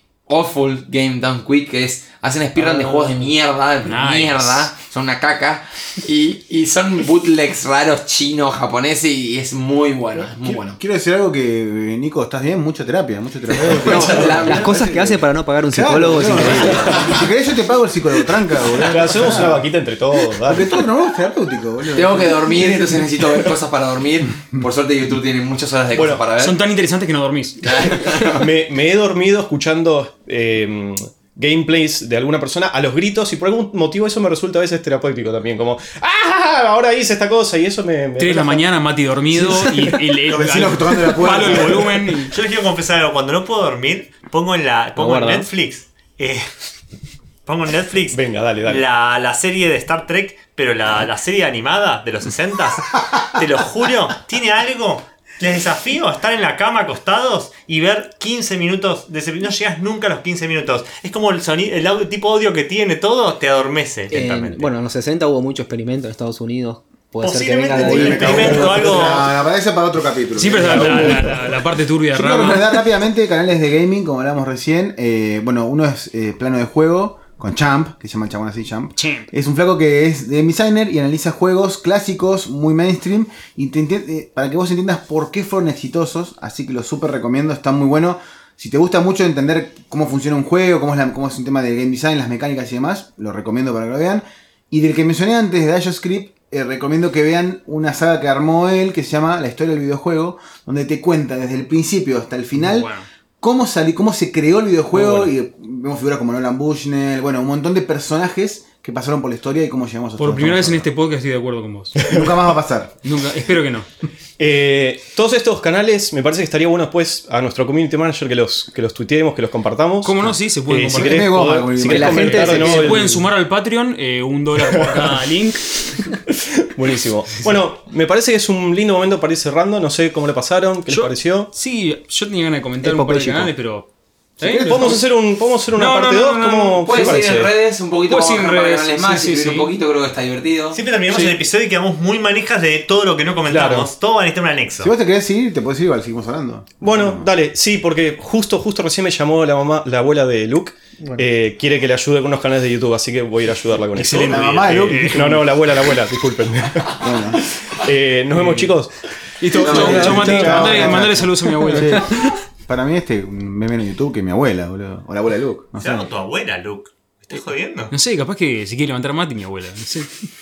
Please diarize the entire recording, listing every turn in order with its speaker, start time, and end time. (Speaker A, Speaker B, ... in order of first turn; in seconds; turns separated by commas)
Speaker A: 0.3-10.8, Speaker B: 3.8-4.7, Speaker C: 10.4-19.6, Speaker A: 13.5-14.7, Speaker D: 13.8-17.0, Speaker A: 16.7-17.2, Speaker E: 18.8-20.7, Speaker C: 20.4-23.2, Speaker A: 21.9-26.6, Speaker E: 25.9-26.2, Speaker B: 26.4-28.2, Speaker A: 27.6-28.4, Speaker E: 28.3-38.7, Speaker B: 38.2-42.3, Speaker C: 40.3-41.9, Speaker F: 41.3-46.5, Speaker E: 45.0-45.5, Speaker F: 47.5-64.7, Speaker E: 48.1-48.8, Speaker D: 64.1-68.9, Speaker F: 67.2-69.4, Speaker C: 67.7-71.6, Speaker B: 70.3-72.8, Speaker C: 72.1-110.9, Speaker B: 79.0-79.3, Speaker B: 102.6-103.1, Speaker E: 104.9-105.3, Speaker B: 110.2-112.0, Speaker E: 112.0-112.3, Speaker C: 112.0-112.9, Speaker B: 113.0-113.9, Speaker E: 114.4-123.1, Speaker B: 120.0-121.3, Speaker C: 120.9-123.0, Speaker D: 121.8-123.2, Speaker B: 122.0-125.8, Speaker E: 124.8-125.2, Speaker E: 126.3-131.5, Speaker B: 130.9-135.1, Speaker D: 132.8-133.5, Speaker C: 134.4-135.0, Speaker E: 134.6-137.5, Speaker B: 135.7-137.2, Speaker A: 136.9-140.8, Speaker B: 138.1-139.7, Speaker F: 140.7-144.9, Speaker B: 141.1-141.3, Speaker E: 143.5-143.9, Speaker C: 144.8-147.3, Speaker E: 146.8-157.2, Speaker B: 153.9-155.4, Speaker C: 154.2-155.4, Speaker C: 156.9-157.5, Speaker E: 157.7-159.0, Speaker B: 158.3-158.7, Speaker B: 159.4-162.1, Speaker C: 159.6-166.1, Speaker A: 159.6-160.0, Speaker E: 159.6-160.9, Speaker F: 165.8-167.9, Speaker B: 167.9-170.1